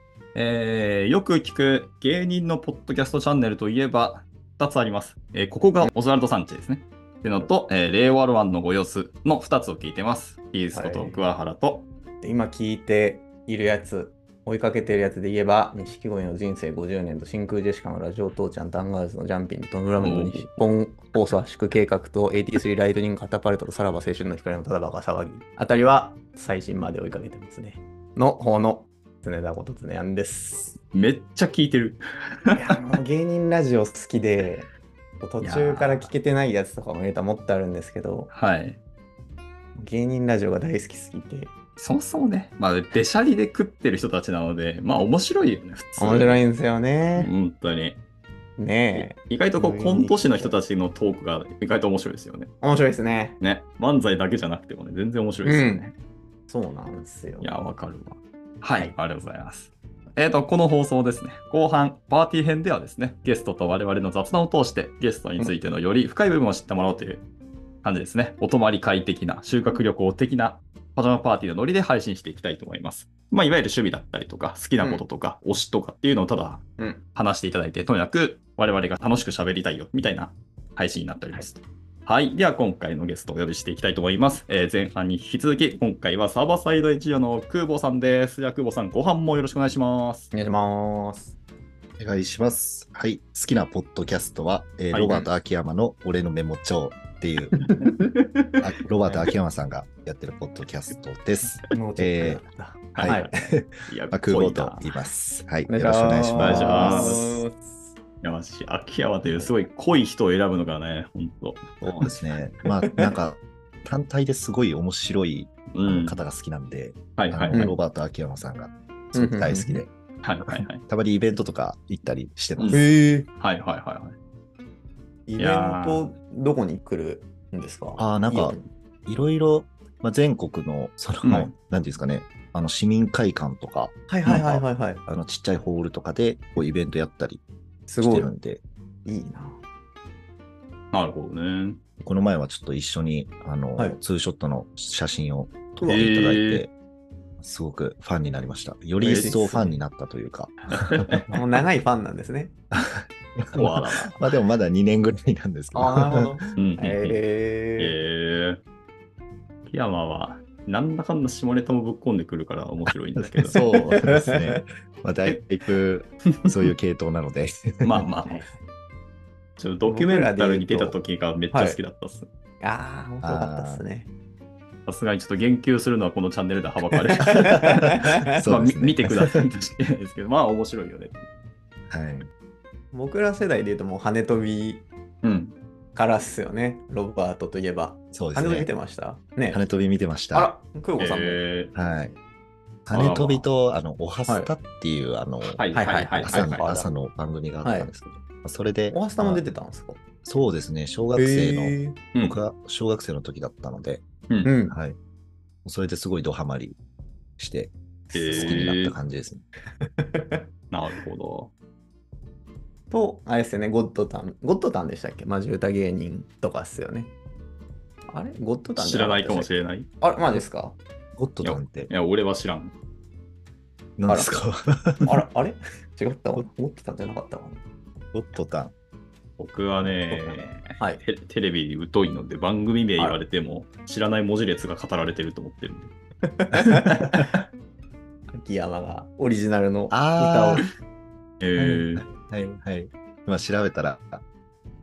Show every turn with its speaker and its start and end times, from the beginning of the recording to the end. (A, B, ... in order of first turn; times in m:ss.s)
0:00.3-0:11.9 A
0:10.7-0:11.2 B
0:12.2-0:30.8 B
0:20.0-0:20.5 A
0:30.9-0:32.7 A
0:32.5-0:34.7 B
0:35.2-0:38.3 B
0:35.4-0:36.1 A
0:38.3-0:38.8 A
0:39.8-0:41.5 B
0:41.8-0:46.4 A
0:46.0-0:47.3 B
0:47.2-0:48.0 A
0:48.6-0:50.6 B
0:48.9-0:52.5 A
0:52.6-0:53.4 B
0:53.4-0:55.9 A
0:55.4-0:55.9 B
0:56.5-0:57.5 B
0:57.4-1:07.2 A
1:07.8-1:30.3 A
1:14.8-1:15.0 B
1:30.3-1:31.3 B
1:32.0-1:37.6 C
1:34.9-1:35.3 A
1:37.5-1:38.1 B
1:38.6-1:42.4 C
1:41.7-1:43.3 B
1:42.9-1:44.8 A
1:43.0-1:47.4 C
1:45.7-1:47.8 B
1:46.4-1:47.2 A
1:48.2-1:51.7 A
1:51.8-1:59.9 C
1:52.8-1:53.1 B
1:55.7-1:56.2 A
1:57.2-1:57.6 A
1:57.5-1:57.8 B
1:59.1-1:59.8 B
2:00.2-2:00.8 A
2:00.5-2:02.8 C
2:02.6-2:02.8 A
2:02.7-2:03.3 B
2:03.4-2:04.2 A
2:05.3-2:08.7 B
2:05.4-2:06.1 A
2:08.0-2:17.4 C
2:11.2-2:11.5 A
2:14.1-2:15.0 B
2:17.9-2:18.3 B
2:18.0-2:18.6 C
2:19.0-2:19.6 B
2:20.9-2:21.8 A
2:22.0-2:26.7 C
2:25.8-2:26.6 A
2:27.4-2:31.2 C
2:29.0-2:29.8 B
2:30.7-2:31.3 A
2:31.3-2:32.5 B
2:32.7-2:36.3 C
2:33.5-2:34.2 A
2:35.7-2:38.0 B
2:36.6-2:37.2 A
2:37.8-2:38.6 A
2:39.6-2:43.6 A
2:43.2-2:48.0 C
2:43.9-2:44.6 B
2:46.4-2:46.7 A
2:47.8-2:48.4 A
2:48.2-2:48.6 B
2:49.6-2:52.3 A
2:49.8-2:51.0 B
2:51.5-2:51.8 B
2:52.6-2:54.1 B
2:53.2-2:53.8 C
2:54.8-3:01.3 A
2:57.3-2:58.4 B
2:58.4-2:59.4 C
3:01.9-3:02.3 C
3:02.9-3:04.8 B
3:05.2-3:05.5 A
3:05.9-3:09.6 B
3:08.1-3:08.7 C
3:09.5-3:10.5 C
3:10.3-3:11.4 B
3:11.0-3:11.7 A
3:11.7-3:12.2 C
3:12.9-3:15.6 C
3:12.9-3:13.4 A
3:15.6-3:16.6 A
3:15.7-3:16.9 B
3:16.2-3:19.4 C
3:17.6-3:17.9 B
3:18.9-3:20.0 B
3:20.2-3:24.0 C
3:21.2-3:22.0 B
3:24.4-3:24.8 B
3:24.7-3:25.0 C
3:25.6-3:26.8 C
3:27.4-3:27.7 C
3:28.1-3:28.6 B
3:28.1-3:28.9 A
3:28.3-3:29.4 C
3:30.0-3:30.4 B
3:30.7-3:31.5 A
3:32.9-3:37.1 B
3:38.1-3:40.8 B
3:38.8-3:39.9 A
3:41.2-3:41.9 C
3:41.4-3:42.7 A
3:44.0-3:45.2 C
3:45.0-3:47.6 B
3:48.1-3:48.7 C
3:49.4-3:55.9 A
3:50.8-3:51.0 B
3:56.3-3:57.1 B
3:58.3-4:00.7 B
3:59.9-4:00.6 C
4:01.4-4:02.0 A
4:01.6-4:04.2 C